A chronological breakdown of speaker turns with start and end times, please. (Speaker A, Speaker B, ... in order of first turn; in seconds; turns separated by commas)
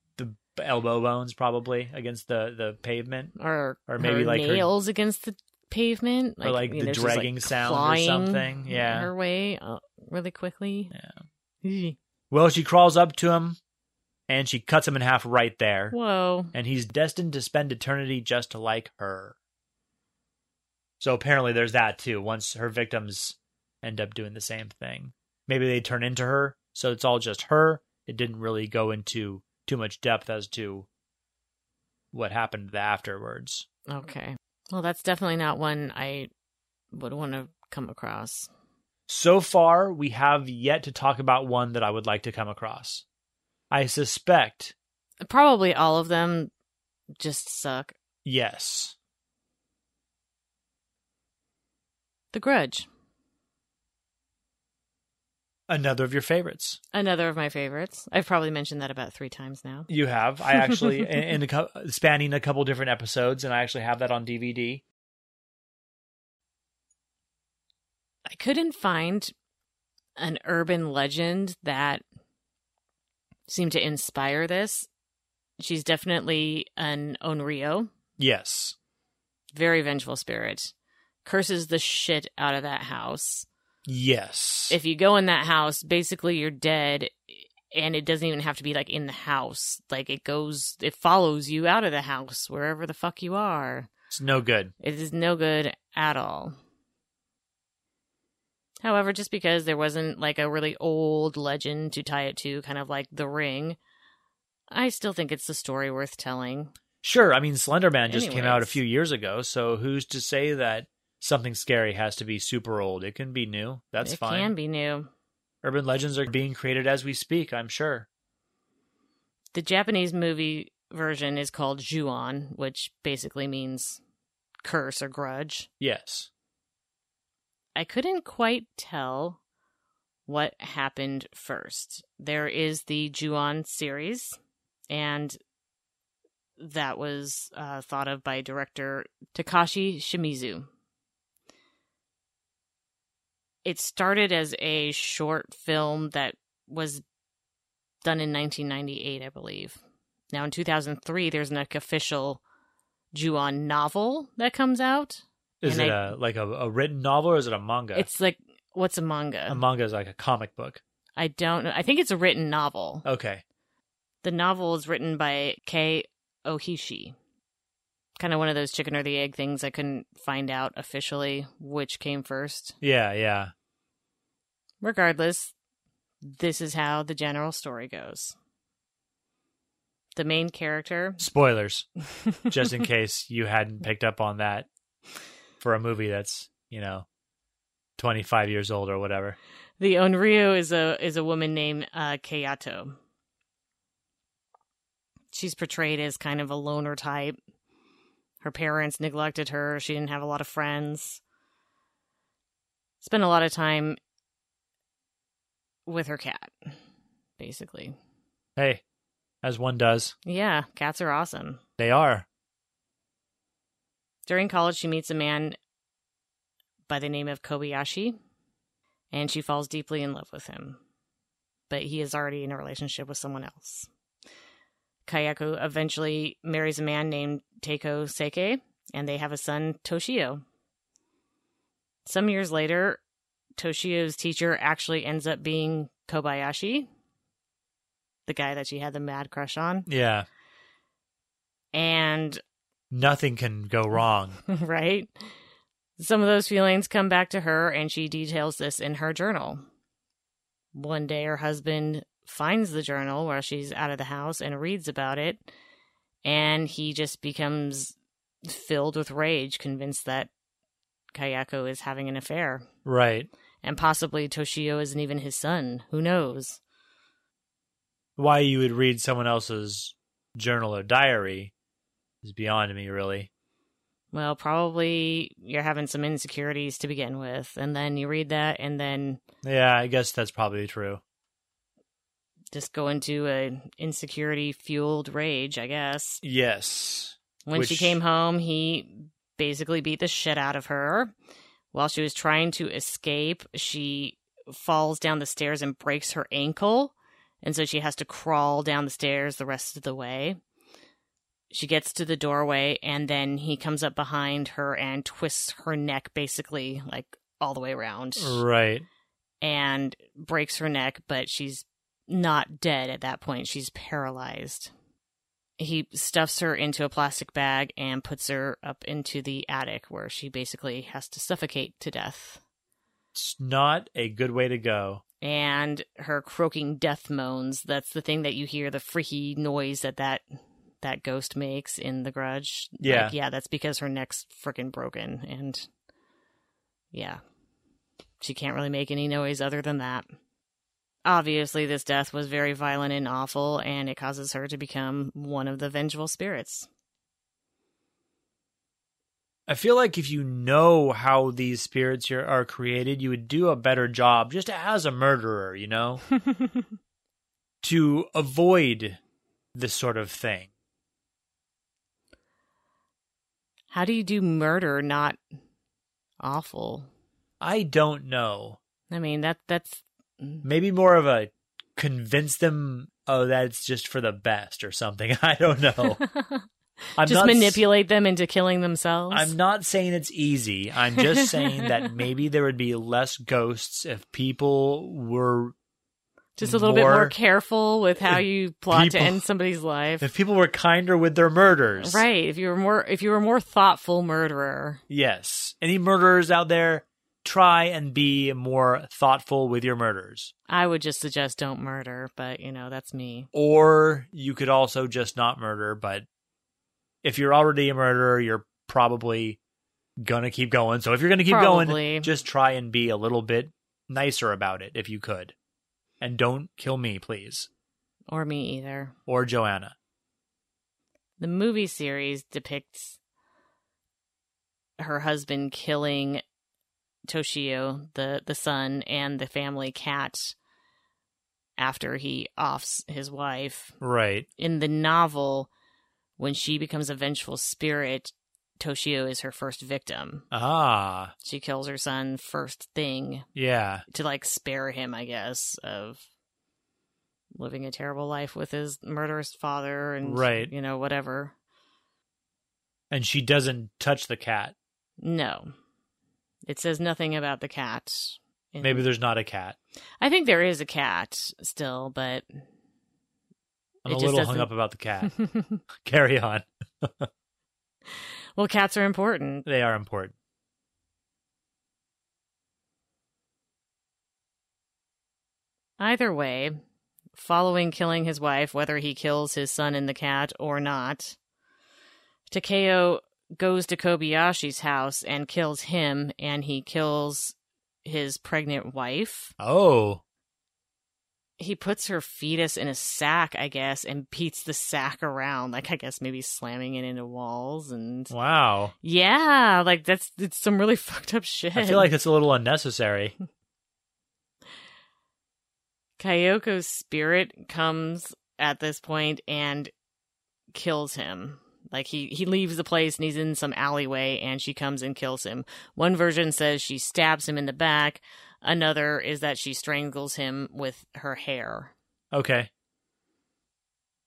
Speaker A: 0.2-3.3, Speaker B: 3.4-10.9, Speaker A: 3.9-4.7, Speaker A: 6.4-9.1, Speaker B: 11.6-12.0, Speaker A: 12.3-13.6, Speaker A: 14.3-15.9, Speaker B: 15.9-16.5, Speaker A: 16.5-19.3, Speaker A: 21.0-30.9, Speaker A: 32.1-33.7, Speaker B: 33.9-36.3, Speaker B: 36.9-38.5, Speaker A: 39.1-43.0, Speaker A: 43.7-44.8, Speaker B: 45.2-46.5, Speaker B: 47.2-48.0, Speaker A: 48.2-49.0, Speaker B: 52.3-52.9, Speaker A: 55.7-56.8, Speaker B: 56.9-59.9, Speaker A: 59.9-64.8, Speaker B: 60.5-61.3, Speaker B: 68.3-69.3, Speaker B: 70.2-72.0, Speaker B: 73.5-74.9, Speaker B: 75.6-77.9, Speaker A: 78.2-78.8, Speaker B: 79.5-80.7, Speaker B: 81.2-83.5, Speaker A: 83.9-84.8, Speaker B: 84.7-93.9, Speaker A: 94.1-94.7, Speaker B: 94.8-96.5, Speaker B: 98.8-103.8, Speaker B: 104.7-106.7, Speaker A: 107.0-114.5, Speaker B: 108.1-108.8, Speaker B: 114.0-115.1, Speaker A: 115.6-118.1, Speaker B: 119.5-124.0, Speaker B: 124.6-125.7, Speaker A: 125.8-126.3, Speaker B: 127.8-129.4, Speaker B: 130.3-134.4, Speaker B: 134.9-135.4, Speaker B: 136.6-140.7, Speaker B: 143.7-147.0, Speaker B: 148.0-149.8, Speaker B: 150.3-152.4, Speaker B: 153.1-156.1, Speaker A: 155.6-158.1, Speaker B: 157.9-159.6, Speaker A: 159.5-160.8, Speaker B: 161.2-163.1, Speaker A: 163.1-163.4, Speaker B: 164.2-167.2, Speaker B: 168.2-172.8, Speaker A: 172.8-173.5, Speaker B: 174.8-175.5, Speaker B: 176.2-178.3, Speaker B: 180.2-181.2, Speaker A: 181.2-181.9, Speaker A: 182.5-184.7, Speaker A: 185.6-187.1, Speaker A: 188.0-189.4, Speaker B: 189.8-193.0, Speaker B: 195.3-197.4, Speaker B: 198.4-201.2, Speaker B: 203.0-204.0, Speaker B: 205.9-206.8, Speaker B: 207.4-208.0, Speaker A: 208.6-208.8, Speaker A: 209.4-210.2, Speaker B: 210.3-211.6, Speaker A: 211.8-212.3, Speaker B: 214.3-215.6, Speaker B: 216.9-218.2, Speaker B: 219.1-220.8, Speaker B: 221.7-223.9, Speaker B: 225.1-230.4, Speaker B: 232.1-233.0, Speaker B: 233.6-236.9, Speaker B: 238.3-239.9, Speaker A: 239.9-240.3, Speaker B: 241.7-242.4, Speaker A: 242.9-244.4, Speaker B: 244.5-245.1, Speaker B: 246.0-249.6, Speaker B: 250.7-255.4, Speaker B: 256.2-260.3, Speaker B: 261.1-262.7, Speaker A: 262.9-263.3, Speaker B: 263.6-266.6, Speaker A: 268.2-271.5, Speaker A: 272.2-273.3, Speaker B: 274.1-279.2, Speaker A: 279.4-281.0, Speaker B: 282.5-286.2, Speaker A: 286.2-288.0, Speaker B: 287.5-291.1, Speaker B: 291.7-300.4, Speaker B: 301.5-308.4, Speaker A: 308.2-308.9, Speaker B: 309.4-314.7, Speaker B: 315.6-322.4, Speaker A: 323.1-325.0, Speaker B: 325.2-330.2, Speaker B: 330.8-335.7, Speaker A: 332.8-333.1, Speaker B: 336.9-337.2, Speaker B: 338.2-340.1, Speaker B: 341.1-346.7, Speaker A: 349.5-356.0, Speaker B: 356.3-356.6, Speaker A: 357.6-359.0, Speaker A: 359.6-360.5, Speaker B: 363.7-365.2, Speaker B: 366.2-366.9, Speaker A: 367.4-368.6, Speaker B: 368.9-370.4, Speaker A: 370.4-376.0, Speaker B: 375.8-376.4, Speaker A: 377.0-377.6, Speaker B: 377.0-379.3, Speaker A: 379.1-385.6, Speaker B: 380.9-381.9, Speaker B: 386.4-390.1, Speaker A: 386.4-387.1, Speaker A: 388.0-389.2, Speaker A: 390.0-392.1, Speaker B: 391.8-394.8, Speaker A: 394.9-400.3, Speaker B: 400.5-403.3, Speaker A: 403.3-406.1, Speaker A: 407.0-409.4, Speaker A: 410.0-415.4, Speaker B: 411.3-412.1, Speaker A: 416.0-417.5, Speaker B: 418.1-418.9, Speaker A: 419.1-419.8, Speaker B: 421.2-423.0, Speaker B: 424.8-426.2, Speaker B: 427.1-430.4, Speaker B: 431.6-433.8, Speaker A: 433.8-434.3, Speaker B: 434.4-435.5, Speaker B: 436.2-440.3, Speaker A: 440.3-441.1, Speaker B: 441.2-443.3, Speaker A: 443.4-443.8, Speaker B: 443.9-446.0, Speaker B: 447.4-451.3, Speaker A: 450.0-450.5, Speaker A: 452.9-454.6, Speaker B: 455.0-455.5, Speaker B: 456.5-458.8, Speaker A: 458.6-459.6, Speaker B: 460.0-462.3, Speaker A: 463.9-465.2, Speaker B: 463.9-464.5, Speaker B: 465.1-465.6, Speaker A: 465.8-467.1, Speaker B: 468.4-469.5, Speaker A: 469.4-470.1, Speaker B: 475.8-476.6, Speaker B: 477.1-481.2, Speaker B: 482.3-489.3, Speaker A: 489.4-490.0, Speaker B: 491.4-498.1, Speaker A: 498.1-498.7, Speaker B: 498.8-501.9, Speaker A: 501.6-503.1, Speaker B: 506.0-509.7, Speaker B: 510.5-521.7, Speaker A: 522.1-522.5